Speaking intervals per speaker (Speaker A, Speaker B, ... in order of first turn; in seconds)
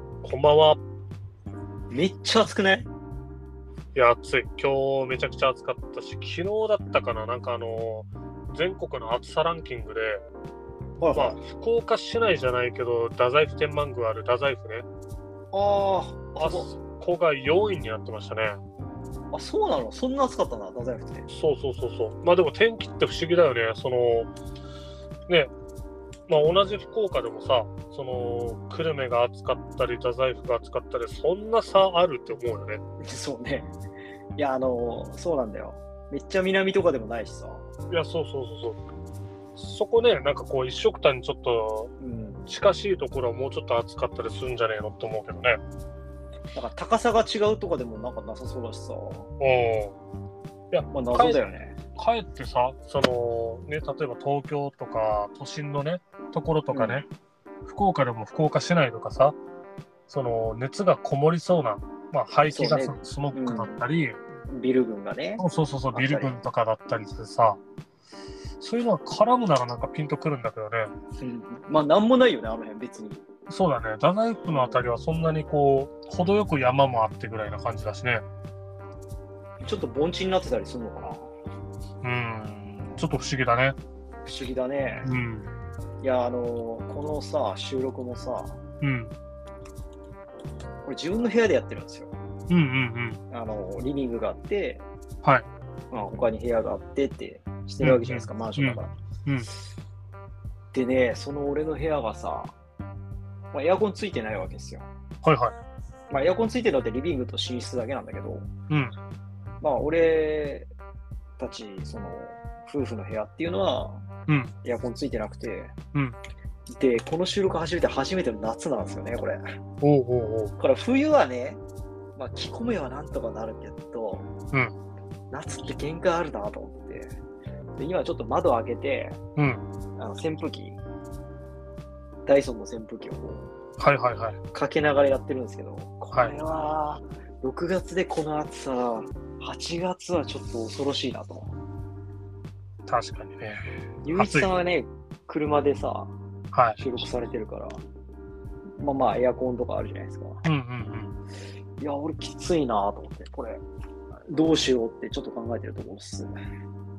Speaker A: 0.2-0.8, 3.9-10.2, 11.1-14.8, 16.4-18.6, 21.3-24.3, 26.3-32.8, 37.9-38.8, 39.5-41.9, 42.5-45.6, 49.4-50.0, 50.7-51.4, 51.9-57.1, 57.6-59.4, 60.1-64.2, 65.4-67.6, 68.6-70.9, 73.5-78.2, 82.0-83.8, 85.0-85.5, 88.8-89.1, 92.5-93.2, 97.8-99.5, 105.2-105.5, 108.7-108.9, 114.3-114.5, 119.8-120.5, 129.3-129.6, 133.8-134.4, 142.9-144.5, 146.5-146.8, 150.4-151.1
Speaker B: 1.9-2.9, 11.0-11.4, 15.5-16.7, 19.3-21.3, 33.0-33.7, 34.4-37.7, 42.0-42.5, 46.5-49.3, 50.9-51.8, 56.7-57.0, 62.5-63.8, 64.5-66.3, 71.2-73.2, 74.5-74.9, 79.6-81.3, 84.2-85.1, 86.0-88.6, 90.8-92.1, 93.3-94.8, 95.9-98.9, 100.7-102.5, 103.5-104.9, 106.1-108.5, 109.6-110.7, 111.4-114.0, 114.6-115.7, 116.7-119.4, 120.6-121.6, 122.2-124.3, 125.3-127.2, 127.8-129.2, 130.0-130.8, 132.2-133.5, 134.5-141.5, 144.0-146.1, 146.8-147.8, 148.8-150.4, 151.8-153.6, 154.3-156.3